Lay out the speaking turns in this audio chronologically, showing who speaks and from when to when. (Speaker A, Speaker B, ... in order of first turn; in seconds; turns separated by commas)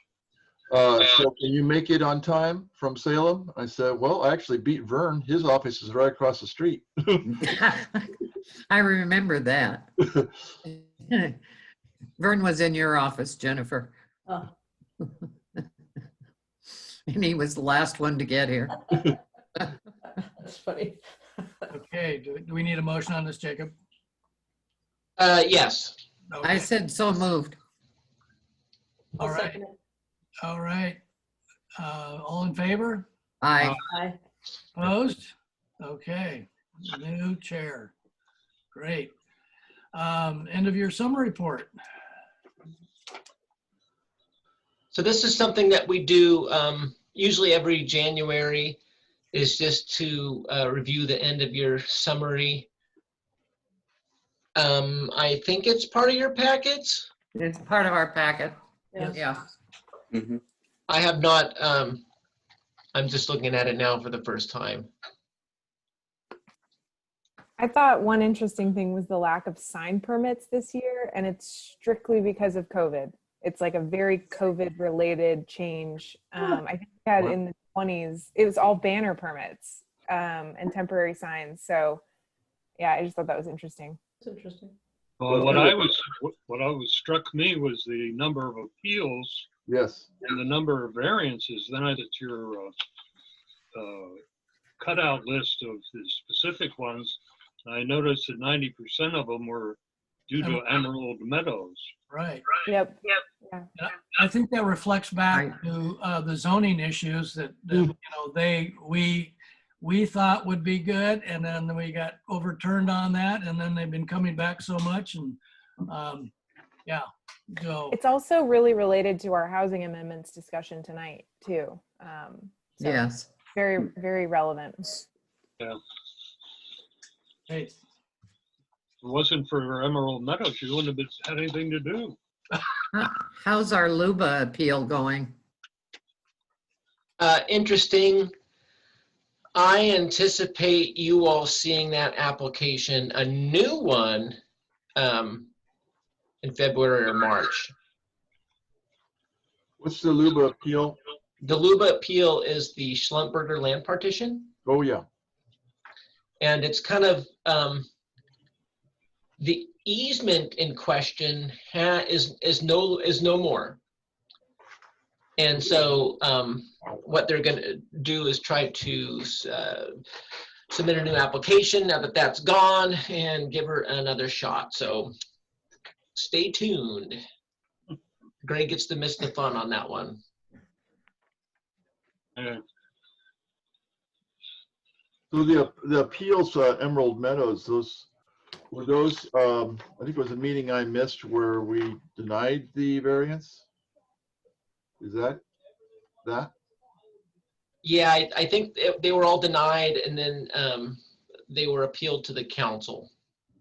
Speaker A: 0.7-7.5, Speaker B: 7.3-8.1, Speaker B: 8.7-10.0, Speaker B: 10.7-11.4, Speaker B: 12.2-13.9, Speaker B: 17.1-18.9, Speaker C: 20.4-21.7, Speaker D: 21.7-23.7, Speaker E: 25.2-26.0, Speaker D: 26.3-26.7, Speaker B: 26.4-27.6, Speaker C: 29.2-29.7, Speaker D: 29.2-29.6, Speaker D: 30.4-31.0, Speaker D: 31.8-33.1, Speaker B: 33.4-33.8, Speaker C: 33.9-34.2, Speaker D: 34.8-37.9, Speaker D: 38.7-39.1, Speaker D: 39.9-41.7, Speaker E: 44.9-48.8, Speaker E: 49.3-52.7, Speaker E: 54.6-57.1, Speaker B: 57.4-59.4, Speaker E: 60.9-62.0, Speaker E: 62.9-64.9, Speaker F: 67.6-82.0, Speaker F: 82.8-84.0, Speaker C: 84.2-84.7, Speaker G: 85.2-89.5, Speaker A: 85.3-85.7, Speaker A: 89.7-90.1, Speaker G: 90.2-92.7, Speaker G: 93.7-94.2, Speaker G: 94.8-101.9, Speaker D: 102.1-102.5, Speaker F: 102.7-103.7, Speaker D: 103.8-116.3, Speaker B: 105.3-105.6, Speaker D: 116.9-118.0, Speaker F: 117.9-125.1, Speaker B: 122.8-123.3, Speaker D: 127.5-127.7, Speaker G: 129.0-132.2, Speaker B: 132.9-135.3, Speaker E: 137.2-138.3, Speaker E: 139.6-144.4, Speaker E: 145.0-145.5, Speaker E: 146.4-147.7, Speaker A: 149.8-151.0, Speaker E: 151.4-154.5, Speaker A: 154.7-155.0, Speaker E: 156.4-157.9, Speaker E: 159.4-163.8, Speaker E: 165.4-169.9, Speaker E: 170.7-175.1, Speaker E: 176.2-177.2, Speaker E: 178.4-180.2, Speaker G: 182.4-182.6, Speaker A: 185.3-188.1, Speaker A: 188.7-193.6, Speaker A: 195.0-195.4, Speaker A: 196.2-196.5, Speaker E: 197.8-203.1